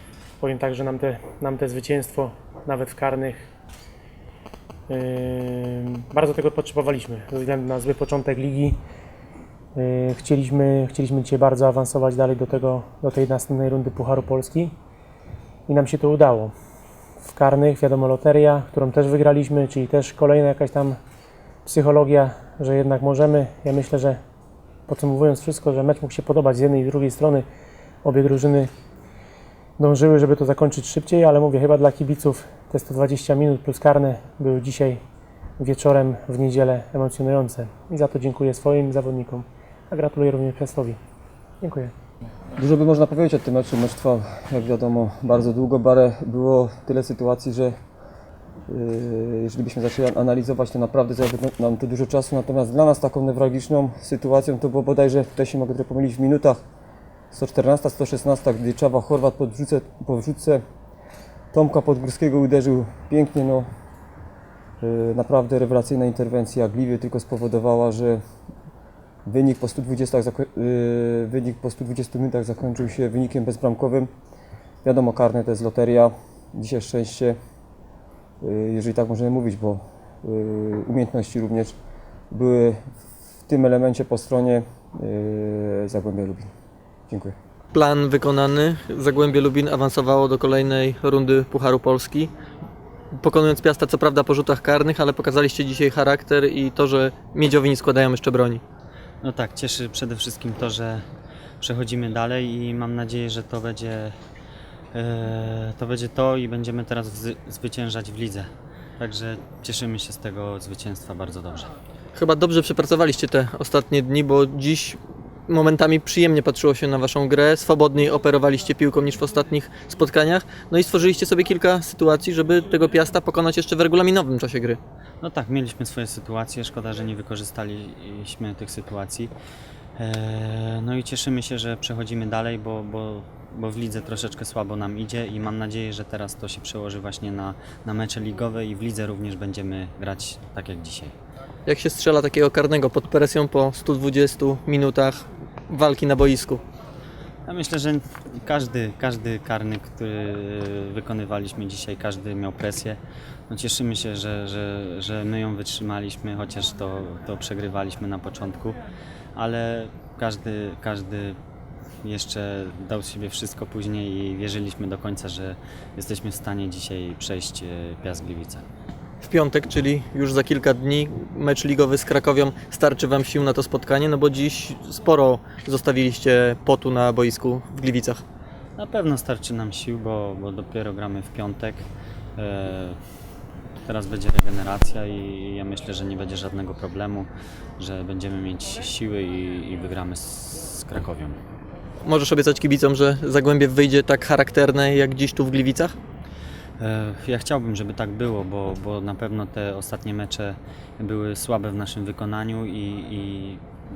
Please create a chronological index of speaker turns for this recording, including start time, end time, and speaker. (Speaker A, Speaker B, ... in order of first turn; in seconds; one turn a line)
Speaker A: 0.4-3.5
Speaker A: 4.9-8.8
Speaker A: 9.7-14.7
Speaker A: 15.7-16.5
Speaker A: 17.2-21.0
Speaker A: 21.6-24.2
Speaker A: 24.9-27.4
Speaker A: 28.0-28.7
Speaker A: 29.8-35.0
Speaker A: 35.6-41.0
Speaker A: 41.6-41.9
Speaker B: 42.5-47.7
Speaker B: 48.7-56.6
Speaker B: 57.3-60.6
Speaker B: 61.5-63.7
Speaker B: 64.8-68.2
Speaker B: 69.2-74.1
Speaker B: 74.8-77.4
Speaker B: 78.4-81.7
Speaker B: 82.3-82.9
Speaker B: 83.5-86.5
Speaker B: 87.1-87.3
Speaker C: 87.7-92.3
Speaker C: 93.2-98.6
Speaker D: 99.2-101.0
Speaker D: 101.6-104.1
Speaker D: 104.9-108.5
Speaker D: 109.0-111.7
Speaker C: 112.1-124.8
Speaker D: 125.2-129.3
Speaker D: 130.0-141.1
Speaker C: 141.7-146.6
Speaker D: 147.4-158.8
Speaker D: 159.3-161.4
Speaker D: 162.0-168.6
Speaker C: 169.2-178.2
Speaker D: 178.8-181.8
Speaker D: 182.4-183.0
Speaker D: 183.8-191.4
Speaker C: 192.0-195.9
Speaker D: 196.8-203.6